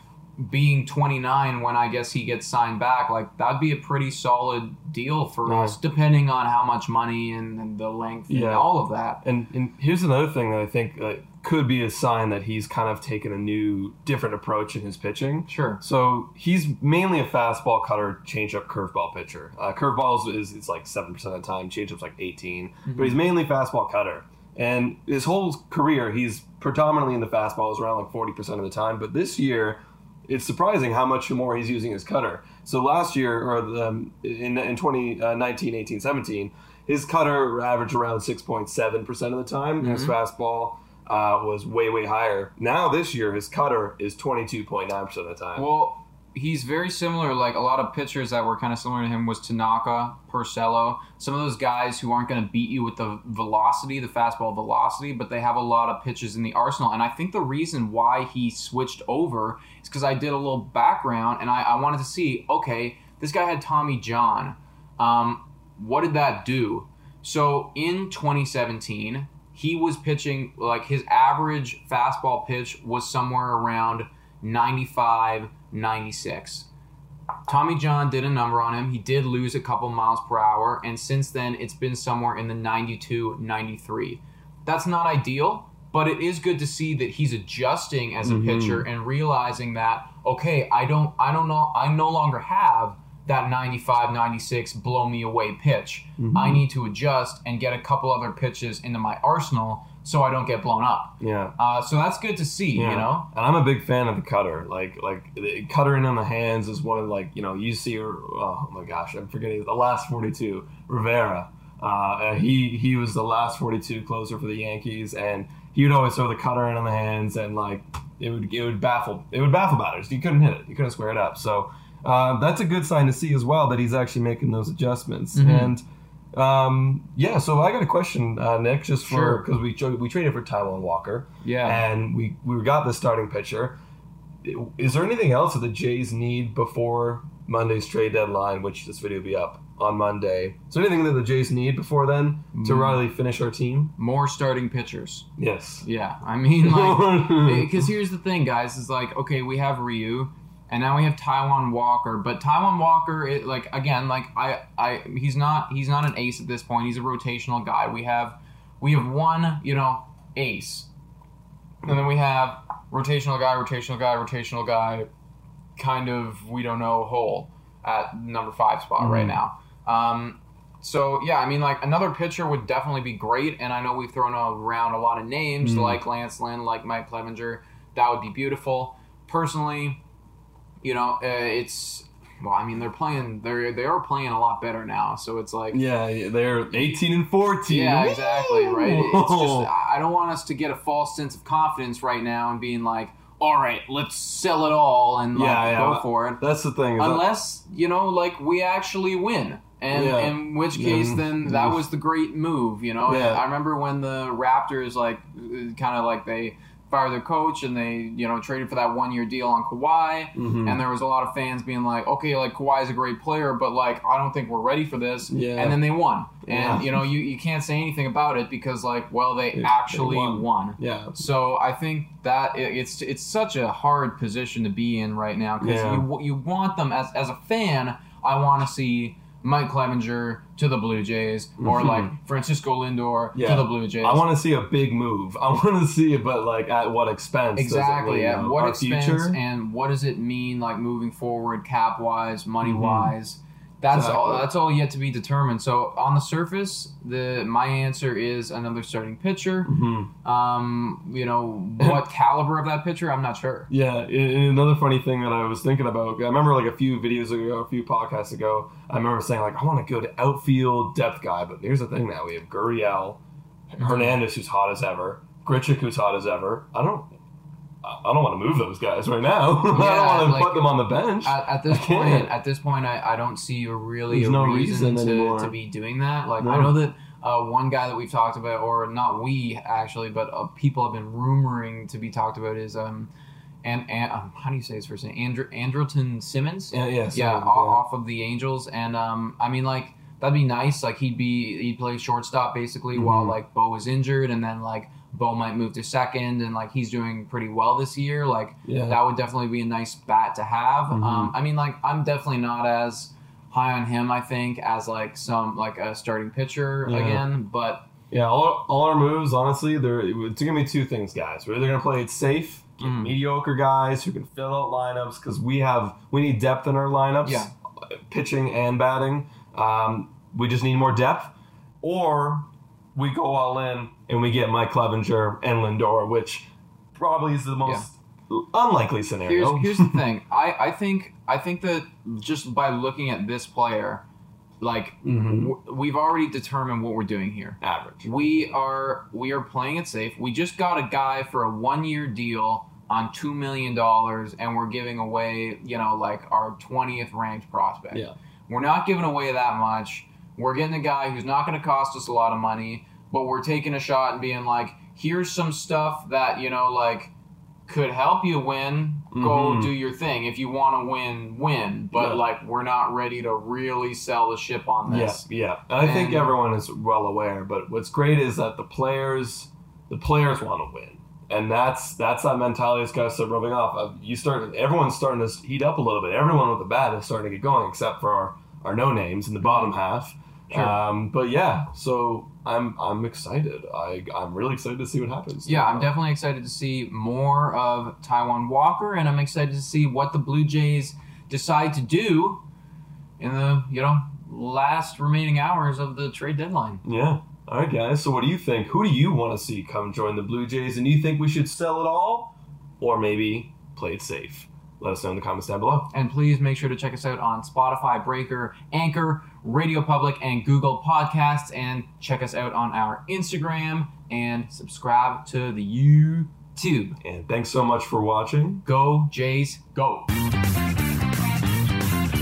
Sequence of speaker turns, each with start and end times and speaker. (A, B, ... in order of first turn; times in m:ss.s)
0:00.4-0:09.2 A
0:05.4-0:05.8 B
0:08.3-0:45.6 B
0:15.5-0:15.8 A
0:22.8-0:23.2 A
0:39.8-0:40.1 A
0:45.6-1:16.7 A
1:17.5-1:43.3 A
1:28.2-1:28.8 B
1:36.2-1:36.6 B
1:41.2-1:41.5 B
1:42.7-2:13.8 B
2:05.3-2:05.7 A
2:09.1-2:09.4 A
2:11.4-2:11.8 A
2:14.4-2:23.9 B
2:22.5-2:23.0 A
2:24.0-2:25.2 A
2:25.4-2:25.8 B
2:25.8-2:40.9 A
2:26.6-2:27.8 B
2:41.8-2:45.1 A
2:45.8-3:00.0 A
2:49.0-2:49.4 B
2:55.6-2:56.0 B
3:00.8-3:05.8 A
3:05.7-3:09.7 B
3:07.7-3:16.4 A
3:15.3-3:17.2 B
3:17.0-3:54.2 A
3:19.9-3:21.8 B
3:23.0-3:23.4 B
3:30.3-3:30.8 B
3:35.3-3:35.8 B
3:36.4-3:37.0 B
3:39.5-3:41.2 B
3:45.6-3:46.0 B
3:51.6-3:52.1 B
3:53.3-3:59.4 B
3:57.6-4:09.7 A
4:02.6-4:03.1 B
4:03.9-4:04.5 B
4:09.6-4:10.1 B
4:10.2-4:13.7 A
4:13.7-4:23.2 B
4:23.7-4:27.1 B
4:23.8-4:24.2 A
4:27.8-4:32.3 B
4:29.7-4:43.1 A
4:34.1-4:35.6 B
4:36.4-4:36.8 B
4:43.6-5:07.8 A
4:46.7-4:47.8 B
4:52.9-4:53.3 B
4:58.6-4:59.0 B
5:00.9-5:01.3 B
5:06.9-5:07.2 B
5:08.1-5:30.0 B
5:12.8-5:13.1 A
5:17.2-5:17.5 A
5:29.2-5:34.0 A
5:34.6-5:57.1 A
5:35.0-5:35.5 B
5:37.6-5:38.5 B
5:57.7-6:05.2 A
5:59.1-5:59.7 B
6:02.0-6:02.2 B
6:04.9-6:25.9 B
6:05.8-6:06.3 A
6:20.5-6:20.8 A
6:25.4-6:32.4 A
6:33.2-6:36.8 A
6:36.8-6:45.9 B
6:45.9-6:57.0 A
6:57.0-6:58.6 B
6:58.6-7:00.1 A